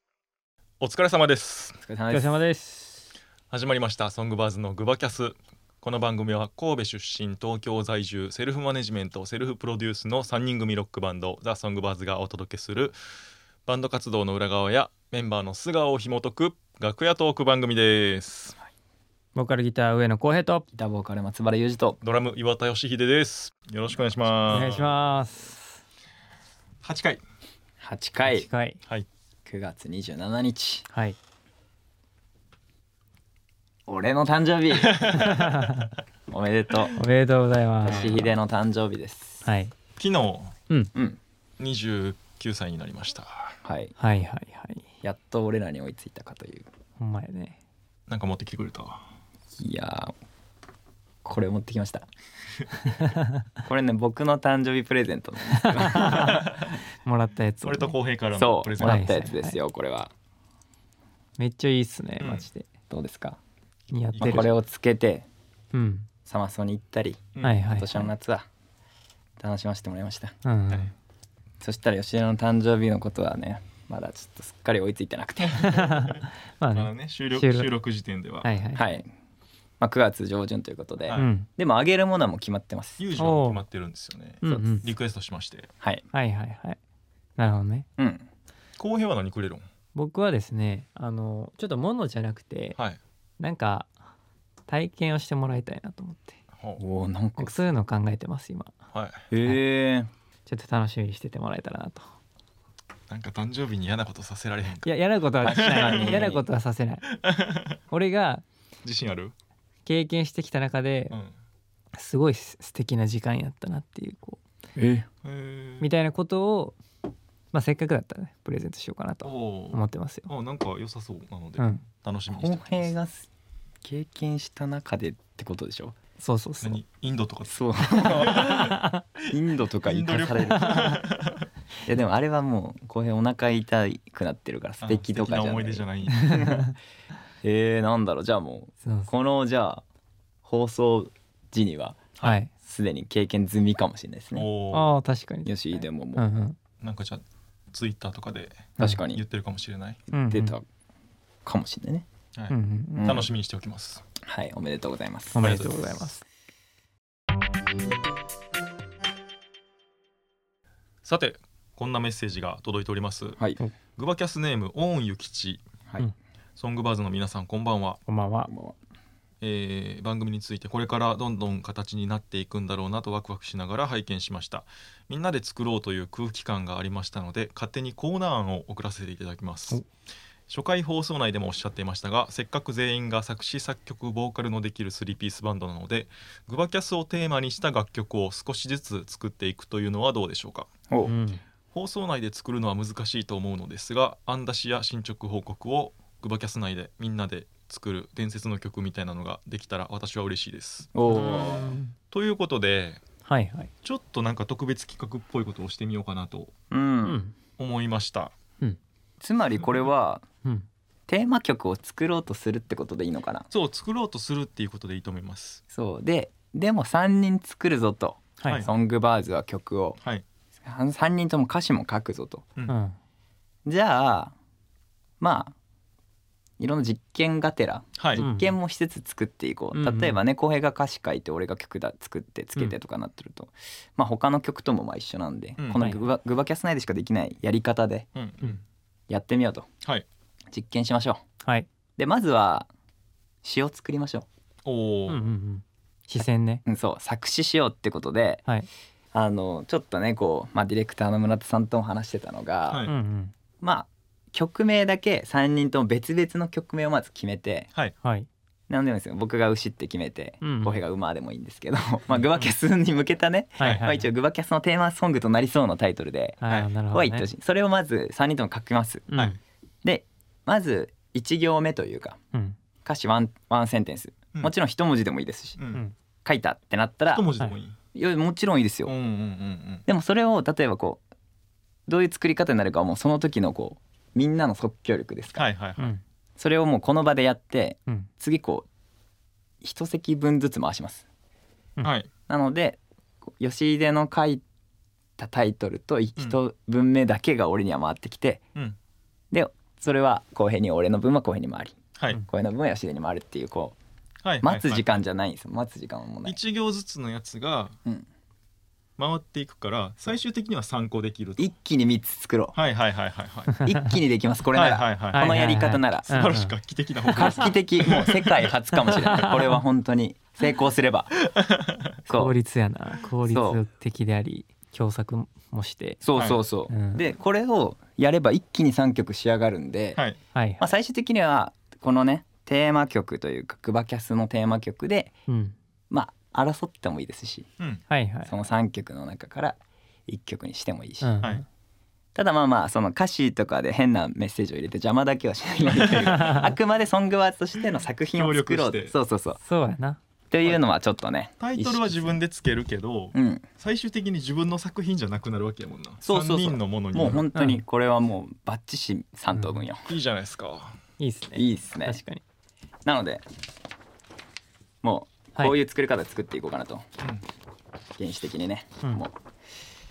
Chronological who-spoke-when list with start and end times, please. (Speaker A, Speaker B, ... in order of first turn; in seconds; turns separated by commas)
Speaker A: 0.8-1.8, Speaker B: 1.8-2.4, Speaker C: 2.1-3.1, Speaker A: 3.5-12.9, Speaker A: 13.7-18.6, Speaker C: 19.4-20.6, Speaker B: 20.7-22.0, Speaker A: 22.0-25.0, Speaker C: 24.5-25.8, Speaker A: 26.8-27.2, Speaker B: 27.8-28.5, Speaker C: 28.3-28.8, Speaker B: 29.4-30.9, Speaker C: 30.9-31.2, Speaker B: 33.9-35.2, Speaker A: 34.8-35.6, Speaker C: 35.2-35.9, Speaker B: 36.3-37.0, Speaker C: 36.9-38.3, Speaker B: 37.8-39.4, Speaker A: 37.9-38.2, Speaker C: 39.4-39.7, Speaker A: 40.0-40.5, Speaker B: 40.9-41.2, Speaker A: 41.6-43.5, Speaker B: 43.6-43.9, Speaker C: 44.0-44.8, Speaker B: 45.0-46.7, Speaker C: 47.0-47.6, Speaker A: 48.1-49.1, Speaker B: 49.5-50.1, Speaker B: 51.2-52.1, Speaker C: 53.0-53.4, Speaker B: 53.6-56.6, Speaker C: 55.5-56.5, Speaker A: 56.1-56.7, Speaker C: 57.0-57.9, Speaker A: 57.6-59.2, Speaker B: 58.3-60.1, Speaker C: 58.8-59.6, Speaker C: 61.4-62.6, Speaker A: 62.2-62.5, Speaker B: 62.9-63.4, Speaker C: 63.9-64.5, Speaker A: 64.1-64.5, Speaker B: 64.2-65.2, Speaker C: 65.7-66.1, Speaker B: 66.2-68.5, Speaker A: 67.3-67.6, Speaker C: 67.4-68.1, Speaker B: 69.4-70.3, Speaker C: 70.4-70.9, Speaker B: 71.6-75.8, Speaker C: 75.6-77.7, Speaker A: 75.6-78.5, Speaker C: 78.4-78.9, Speaker B: 78.7-79.1, Speaker B: 79.8-83.0, Speaker C: 81.1-81.5, Speaker A: 83.0-85.7, Speaker C: 83.2-83.6, Speaker C: 84.4-84.8, Speaker C: 86.1-86.8, Speaker C: 87.4-87.9, Speaker B: 88.0-88.3, Speaker A: 88.8-89.6, Speaker C: 89.9-92.8, Speaker C: 93.4-93.9, Speaker C: 94.7-96.4, Speaker B: 96.8-97.6, Speaker C: 97.4-98.7, Speaker A: 98.9-99.2, Speaker B: 99.3-100.1, Speaker C: 100.5-102.0, Speaker A: 103.1-104.9, Speaker C: 104.8-107.0, Speaker B: 105.4-106.4, Speaker A: 105.4-106.3, Speaker A: 107.1-107.8, Speaker C: 107.9-108.4, Speaker A: 108.8-109.3, Speaker C: 109.8-111.2, Speaker C: 111.9-114.4, Speaker B: 114.8-115.0, Speaker A: 115.2-115.9, Speaker C: 115.8-116.8, Speaker C: 117.5-120.3, Speaker A: 119.2-122.9, Speaker B: 122.3-123.3, Speaker B: 123.8-126.0, Speaker C: 126.2-126.8, Speaker A: 126.6-131.5, Speaker B: 127.5-128.7, Speaker C: 128.5-129.0, Speaker B: 129.2-131.0, Speaker C: 130.5-131.0, Speaker B: 131.8-136.6, Speaker A: 134.8-136.6, Speaker C: 136.1-136.7, Speaker B: 137.4-139.8, Speaker C: 138.8-139.1, Speaker B: 140.4-142.0, Speaker C: 142.2-142.5, Speaker B: 142.6-144.5, Speaker A: 144.3-144.9, Speaker C: 144.7-146.6, Speaker B: 145.4-146.3, Speaker A: 146.8-150.0, Speaker B: 148.8-149.2, Speaker C: 150.1-150.5, Speaker B: 150.3-150.6, Speaker B: 151.4-152.1, Speaker A: 152.3-154.0, Speaker C: 152.5-153.2, Speaker B: 153.0-153.3, Speaker B: 154.2-155.6, Speaker C: 155.3-156.2, Speaker A: 155.4-155.9, Speaker A: 161.0-163.4, Speaker A: 164.0-165.6, Speaker A: 166.6-168.0, Speaker C: 168.1-168.5, Speaker B: 168.5-168.8, Speaker A: 169.4-179.8, Speaker A: 180.5-190.7, Speaker C: 191.1-191.4, Speaker A: 191.7-203.0, Speaker B: 200.9-201.7, Speaker C: 201.1-201.9, Speaker C: 203.2-203.7, Speaker A: 203.8-206.5, Speaker B: 206.7-207.2, Speaker C: 207.0-207.3, Speaker A: 207.6-208.3, Speaker B: 209.2-210.2, Speaker B: 211.1-213.5, Speaker A: 213.5-215.6, Speaker B: 215.7-220.0, Speaker C: 218.4-218.7, Speaker A: 218.4-218.7, Speaker B: 220.6-222.5, Speaker C: 222.7-222.9, Speaker B: 223.7-224.3, Speaker B: 225.2-225.5, Speaker B: 226.6-238.1, Speaker A: 228.0-228.2, Speaker C: 228.2-228.5, Speaker C: 229.7-230.2, Speaker A: 235.6-235.9, Speaker C: 235.7-236.0, Speaker A: 238.1-238.6, Speaker B: 239.1-239.7, Speaker B: 240.5-241.2, Speaker C: 241.4-241.7, Speaker B: 242.0-242.7, Speaker B: 243.4-244.3, Speaker A: 244.6-245.2, Speaker C: 245.1-246.6, Speaker B: 246.6-248.4, Speaker B: 249.1-252.8, Speaker A: 252.7-252.9, Speaker C: 252.8-253.3, Speaker B: 253.6-257.7, Speaker C: 258.0-258.3, Speaker B: 258.7-266.4, Speaker C: 260.4-260.8, Speaker C: 263.6-264.1, Speaker A: 263.6-263.9, Speaker C: 266.4-267.3, Speaker B: 266.9-269.1, Speaker C: 269.1-269.4, Speaker B: 269.8-272.2, Speaker B: 272.8-275.6, Speaker A: 275.6-275.8, Speaker B: 276.2-277.3, Speaker A: 277.1-277.8, Speaker B: 277.9-278.9, Speaker A: 278.9-279.8, Speaker B: 279.9-281.0, Speaker B: 281.9-285.4, Speaker A: 285.3-285.9, Speaker B: 286.4-288.7, Speaker B: 289.6-291.0, Speaker A: 291.8-292.1, Speaker B: 292.3-294.4, Speaker B: 295.2-298.4, Speaker B: 299.3-303.8, Speaker A: 304.2-305.0, Speaker B: 304.4-306.4, Speaker A: 306.2-307.8, Speaker A: 309.0-311.5, Speaker B: 311.4-312.6, Speaker A: 312.5-313.7, Speaker B: 313.6-316.3, Speaker A: 314.5-315.3, Speaker C: 315.1-316.5, Speaker A: 316.1-318.5, Speaker B: 317.1-321.2, Speaker C: 317.2-317.4, Speaker C: 319.0-319.6, Speaker A: 321.3-321.9, Speaker B: 322.1-322.3, Speaker C: 322.1-326.0, Speaker B: 323.2-323.6, Speaker B: 326.0-330.0, Speaker A: 326.1-326.4, Speaker C: 326.7-327.0, Speaker C: 330.3-330.6, Speaker B: 330.6-335.1, Speaker C: 335.3-335.6, Speaker B: 335.9-337.5, Speaker C: 337.9-338.3, Speaker B: 338.2-341.2, Speaker C: 341.0-341.4, Speaker B: 342.1-349.4, Speaker A: 345.7-346.4, Speaker C: 346.1-346.4, Speaker A: 348.1-348.9, Speaker C: 349.4-350.0, Speaker B: 350.3-352.2, Speaker A: 351.4-357.3, Speaker B: 353.1-353.4, Speaker B: 356.0-359.9, Speaker C: 357.3-357.6, Speaker C: 359.3-359.6, Speaker A: 359.9-360.8, Speaker C: 361.0-362.2, Speaker B: 361.3-362.0, Speaker B: 362.8-363.2, Speaker B: 364.8-366.9, Speaker B: 368.0-369.1